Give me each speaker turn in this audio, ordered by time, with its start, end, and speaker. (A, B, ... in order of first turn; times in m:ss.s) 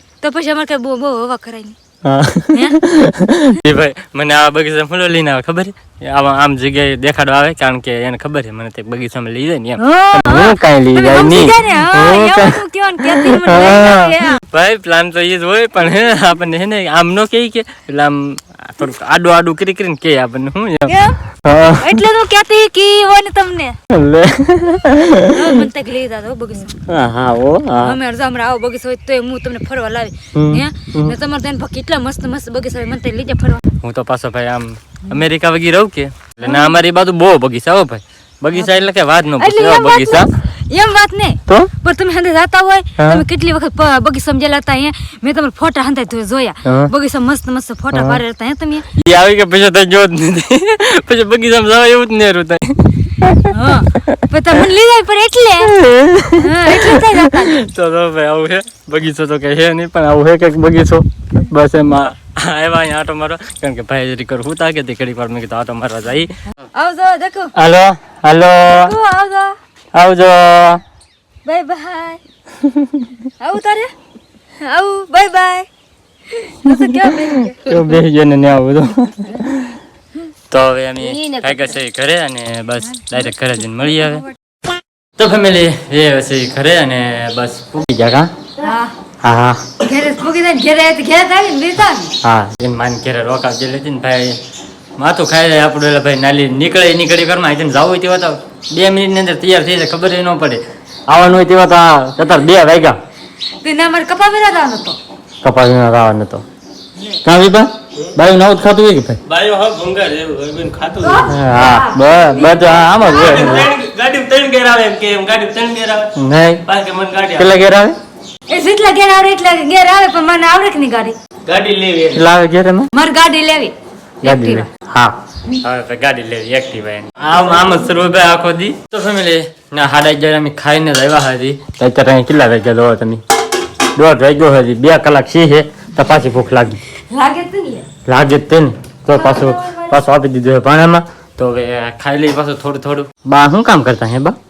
0:00.2-0:01.8 A
0:02.0-0:22.0 B
0:02.5-0:02.8 A
0:09.8-0:14.4 A
0:20.9-0:21.2 A
0:21.8-0:23.8 A
0:23.9-0:25.6 B
0:25.3-0:26.8 A
0:26.9-0:28.0 B
0:27.8-0:33.6 A
0:30.3-0:31.2 B
0:33.8-0:40.3 B
0:36.4-0:36.8 A
0:39.4-0:48.9 A
0:43.0-0:43.2 B
0:46.6-0:46.9 B
0:47.9-0:48.2 B
0:48.9-0:54.7 B
0:53.4-0:55.8 A
0:55.6-1:06.3 B
0:56.3-0:57.5 A
1:06.6-1:07.5 A
1:07.5-1:08.9 B
1:08.7-1:09.5 A
1:09.9-1:10.8 B
1:11.4-1:12.2 A
1:12.6-1:13.1 B
1:13.4-1:13.9 A
1:14.6-1:15.7 A
1:16.3-1:18.0 A
1:16.6-1:19.8 B
1:20.5-1:24.2 B
1:25.2-1:28.3 B
1:28.6-1:28.9 A
1:29.2-1:29.6 B
1:29.8-1:32.1 A
1:32.2-1:34.4 B
1:35.0-1:43.0 B
1:43.6-1:45.0 A
1:45.4-1:46.4 B
1:47.2-1:49.2 B
1:49.3-1:51.3 C
1:51.0-1:53.7 A
1:51.2-1:53.7 B
1:53.3-1:56.1 C
1:56.2-1:56.6 B
1:56.7-1:57.5 C
1:57.4-1:58.0 B
1:58.5-2:01.2 A
2:01.5-2:02.2 C
2:02.1-2:02.9 B
2:02.9-2:04.7 A
2:04.2-2:13.2 B
2:13.9-2:16.8 B
2:17.0-2:17.9 A
2:18.0-2:24.4 B
2:19.1-2:20.0 A